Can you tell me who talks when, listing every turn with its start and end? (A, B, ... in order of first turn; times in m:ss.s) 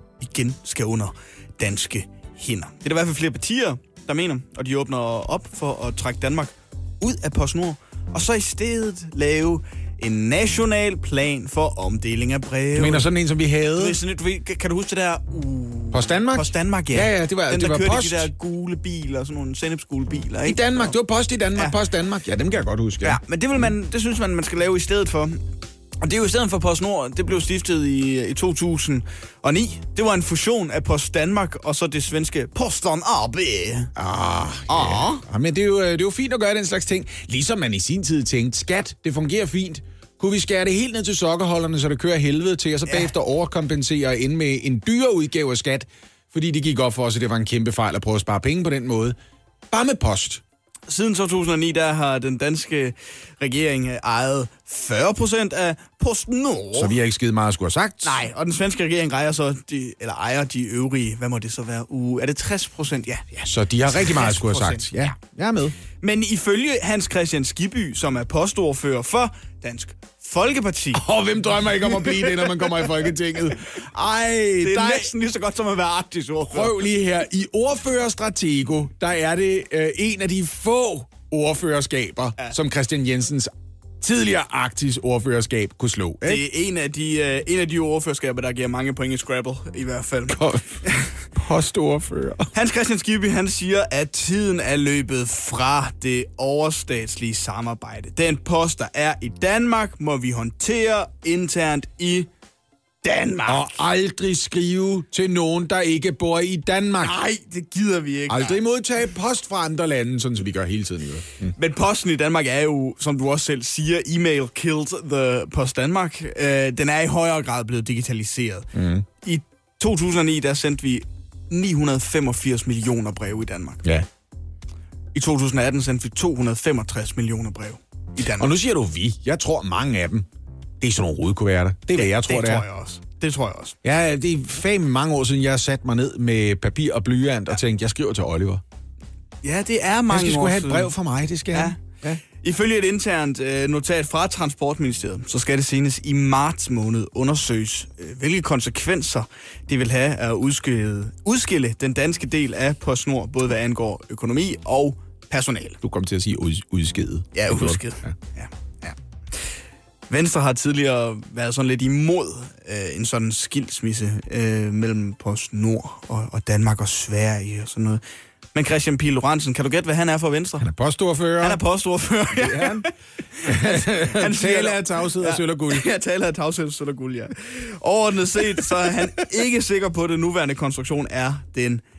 0:00.2-0:13.1 A
0:12.7-0:14.0 B
0:13.7-0:20.9 A
0:15.9-0:18.3 B
0:20.4-0:23.2 B
0:23.0-0:25.4 A
0:26.0-0:33.9 A
0:34.0-0:49.2 B
0:34.7-0:35.2 A
0:49.7-0:50.4 B
0:50.9-0:57.0 A
0:56.7-0:58.2 B
0:58.0-1:04.9 A
1:03.4-1:05.8 B
1:06.0-1:11.0 A
1:10.9-1:15.1 B
1:12.0-1:12.9 A
1:14.6-1:16.7 A
1:16.5-1:26.4 B
1:26.2-1:31.2 A
1:30.3-1:32.5 B
1:32.5-1:42.3 A
1:43.0-1:43.7 A
1:43.5-1:47.2 B
1:47.0-1:48.6 A
1:48.3-1:51.5 B
1:51.6-2:03.8 A
1:58.7-1:59.0 B
2:05.1-2:08.5 A
2:08.4-2:10.3 B
2:10.8-2:12.6 B
2:11.9-2:13.8 A
2:13.8-2:18.6 B
2:19.4-2:20.9 A
2:20.1-2:22.2 B
2:21.5-2:35.8 A
2:35.8-2:38.2 B
2:37.3-2:39.5 A
2:40.1-2:48.0 A
2:48.5-2:50.7 A
2:50.6-2:51.6 B
2:51.4-3:01.8 A
2:52.3-2:52.9 B
2:53.4-2:55.8 B